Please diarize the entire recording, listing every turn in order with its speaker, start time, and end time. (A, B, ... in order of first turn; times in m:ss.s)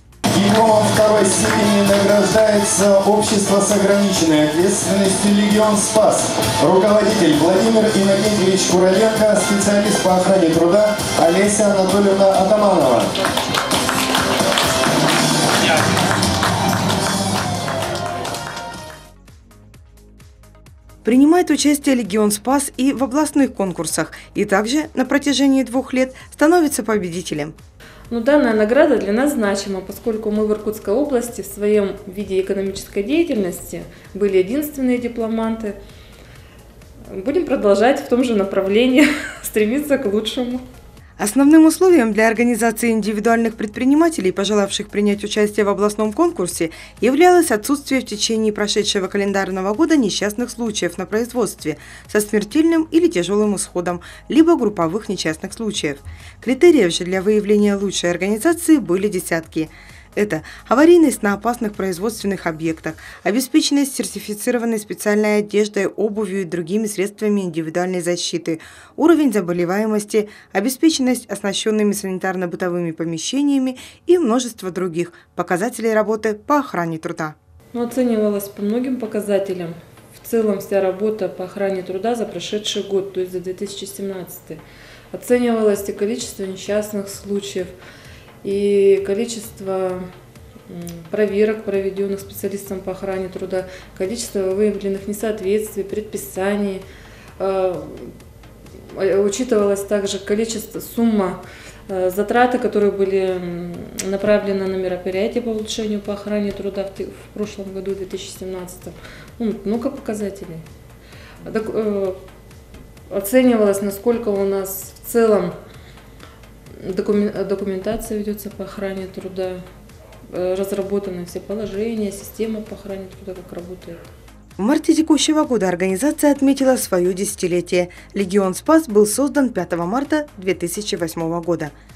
0:00.3-0:13.1 A
0:21.0-0:27.6 B
0:28.1-0:35.7 C
0:37.1-0:40.6 C
0:41.2-1:17.4 B
1:17.7-1:24.6 C
1:25.1-1:27.7 C
1:28.4-1:30.0 C
1:30.7-1:36.8 C
1:37.4-1:38.1 C
1:38.9-1:50.6 C
1:51.4-1:52.2 C
1:53.1-1:55.5 C
1:56.8-1:59.6 C
2:00.3-2:04.1 C
2:04.6-2:11.7 B